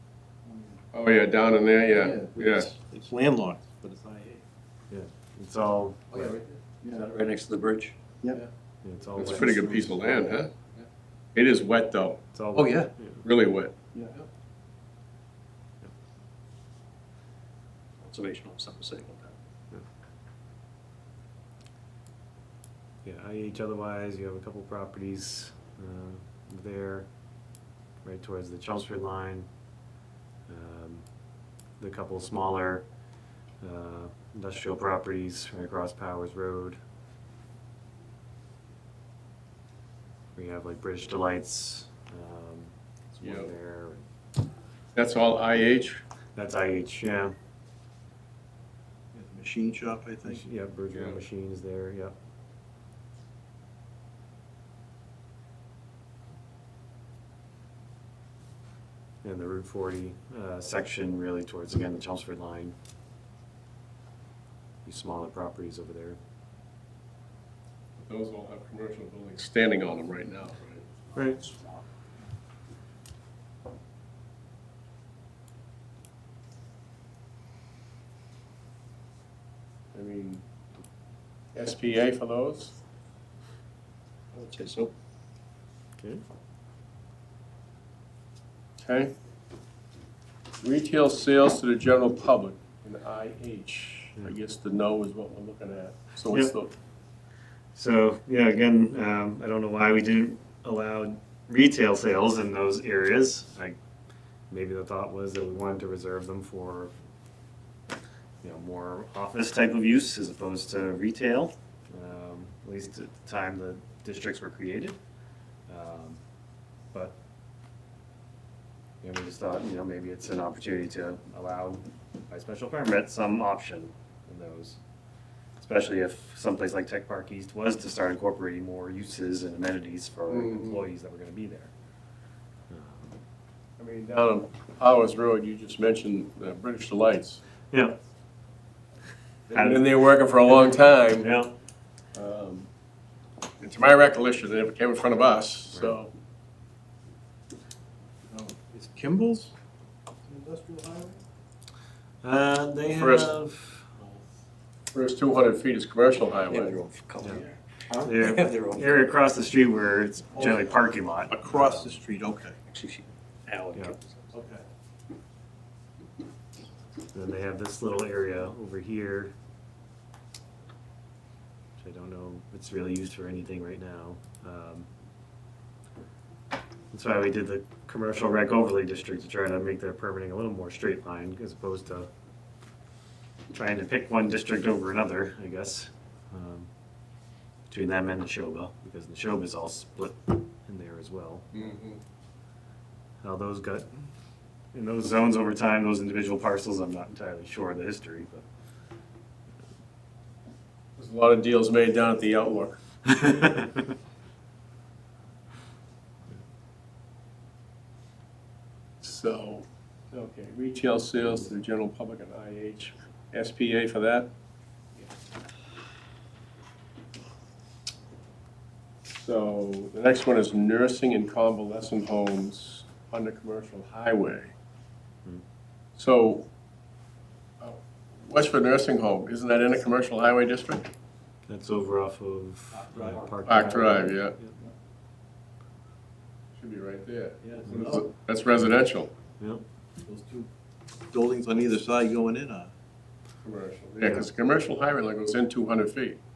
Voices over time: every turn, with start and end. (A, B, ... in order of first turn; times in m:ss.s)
0:00.5-0:00.8 A
0:00.9-0:02.7 B
0:01.9-0:04.4 A
0:04.9-0:06.4 C
0:06.1-0:08.0 D
0:08.8-0:10.0 C
0:09.2-0:10.5 B
0:11.3-0:12.2 B
0:12.3-0:13.2 C
0:13.2-0:13.7 B
0:13.9-0:14.2 A
0:18.0-0:19.3 D
0:23.0-0:27.1 C
0:28.0-0:29.5 C
0:30.5-0:31.0 C
0:31.8-0:32.8 C
0:33.6-0:36.8 C
0:40.3-0:44.1 C
0:43.2-0:43.5 B
0:44.9-0:46.0 B
0:46.4-0:47.4 C
0:49.1-0:50.4 A
0:50.2-0:52.2 C
0:50.9-0:51.2 B
0:59.2-1:02.7 C
1:04.8-1:06.2 C
1:08.0-1:10.8 B
1:11.1-1:11.4 C
1:19.9-1:20.4 B
1:21.5-1:22.8 B
1:24.3-1:24.9 D
1:28.8-1:29.1 B
1:30.6-1:36.7 B
1:37.7-1:43.8 C
1:44.5-1:46.9 C
1:48.4-1:55.0 C
1:55.7-1:56.2 C
1:56.9-1:57.2 C
1:59.0-2:04.8 C
2:05.6-2:11.7 C
2:10.3-2:10.8 B
2:12.7-2:13.2 C
2:13.8-2:17.4 B
2:17.7-2:18.0 C
2:19.5-2:21.3 B
2:19.5-2:21.5 C
2:22.1-2:22.7 B
2:23.6-2:26.1 B
2:28.3-2:29.5 A
2:30.2-2:31.2 A
2:32.2-2:33.9 C
2:32.9-2:33.4 B
2:34.0-2:34.3 A
2:34.9-2:36.8 B
2:36.5-2:37.5 D
2:37.9-2:38.1 A
2:38.0-2:42.0 C
2:38.0-2:39.1 D
2:40.3-2:42.6 A
2:42.7-2:44.3 D
2:44.3-2:44.6 A
2:47.1-2:49.3 C
2:51.8-2:54.9 C
2:56.9-3:02.1 C
3:03.5-3:06.7 C
3:07.7-3:11.7 C
3:11.5-3:12.0 B
3:13.2-3:13.9 C
3:14.7-3:18.4 C
3:21.0-3:22.8 B
3:23.0-3:23.9 C
3:29.0-3:34.3 B
3:39.1-3:44.5 B
3:46.0-3:46.5 B
3:47.6-3:50.9 B
3:51.5-3:54.5 C
3:52.7-3:53.4 A
3:53.4-3:54.4 B
3:56.6-3:59.1 B
3:57.4-3:58.1 A
3:59.4-3:59.6 C
4:00.0-4:00.5 A
4:01.1-4:02.7 A
4:03.4-4:06.2 B